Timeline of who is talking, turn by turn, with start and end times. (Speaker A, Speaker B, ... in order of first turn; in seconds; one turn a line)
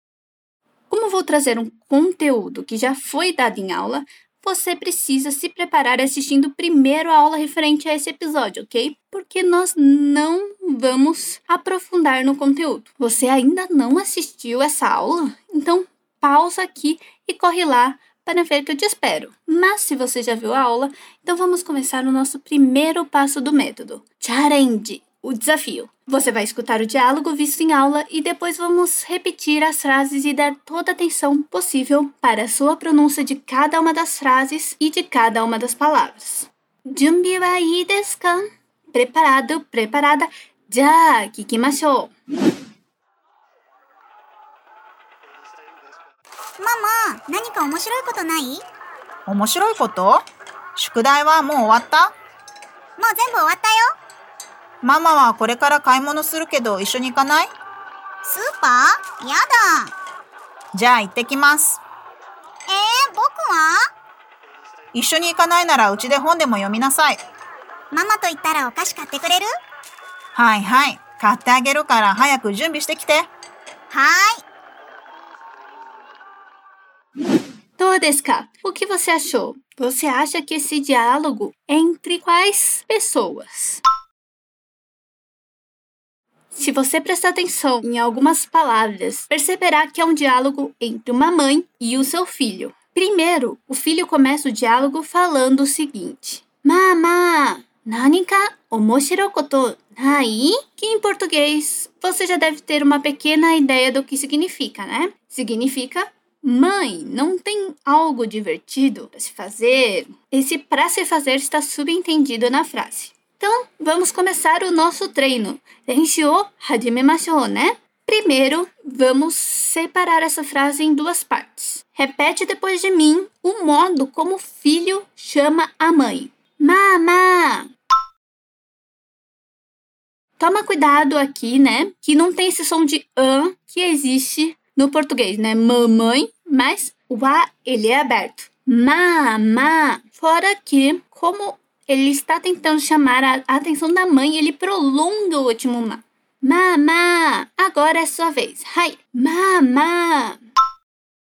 Speaker A: 0.9-42.1
Speaker B: 46.6-48.6
Speaker C: 49.3-50.2
Speaker C: 50.8-52.1
Speaker B: 53.0-53.9
Speaker C: 54.8-57.5
Speaker B: 58.2-59.9
Speaker C: 60.7-61.8
Speaker B: 62.7-63.8
Speaker C: 64.9-67.2
Speaker B: 67.9-69.5
Speaker C: 70.3-73.3
Speaker B: 73.9-74.4
Speaker A: 77.8-83.8
Speaker A: 86.5-127.7
Speaker A: 130.4-150.4